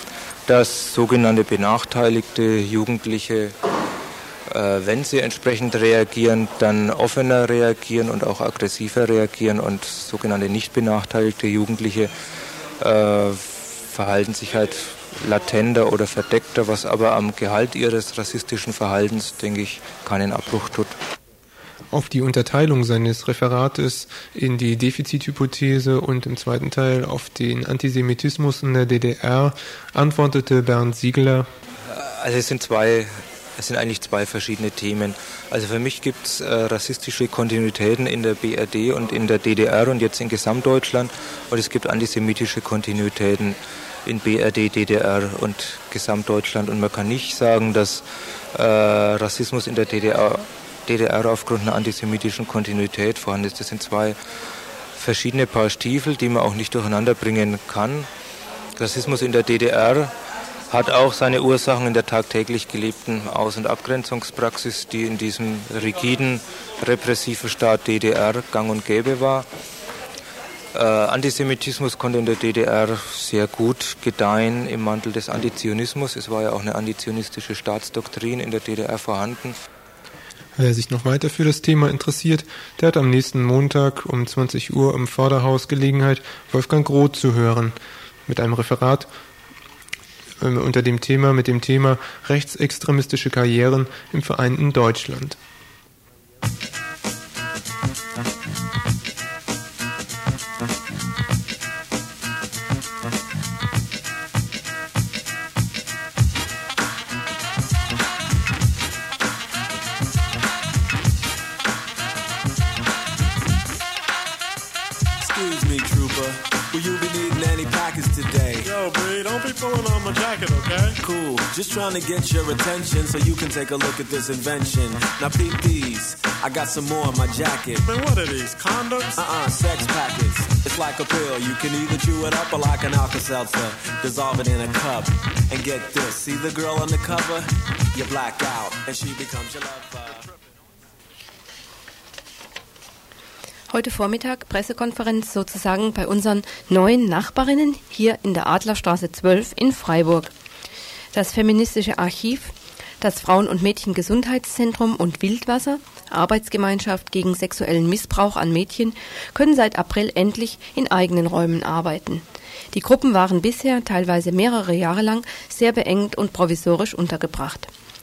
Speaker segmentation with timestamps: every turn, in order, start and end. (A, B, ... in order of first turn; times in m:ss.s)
0:00.5-0:03.5 A
0:04.5-0:12.1 A
0:12.8-0:20.9 A
0:21.9-0:31.5 B
0:31.9-0:48.0 A
0:48.5-0:54.2 A
0:55.0-0:58.1 A
0:58.8-1:00.1 A
1:00.7-1:09.5 A
1:10.7-1:19.6 A
1:20.6-1:27.7 B
1:28.3-1:29.1 B
1:30.4-1:35.4 B
1:55.2-1:58.7 C
1:58.6-2:01.0 D
2:01.0-2:07.9 C
2:07.8-2:09.2 D
2:09.2-2:20.3 C
2:23.7-2:30.3 E
2:31.1-2:47.7 E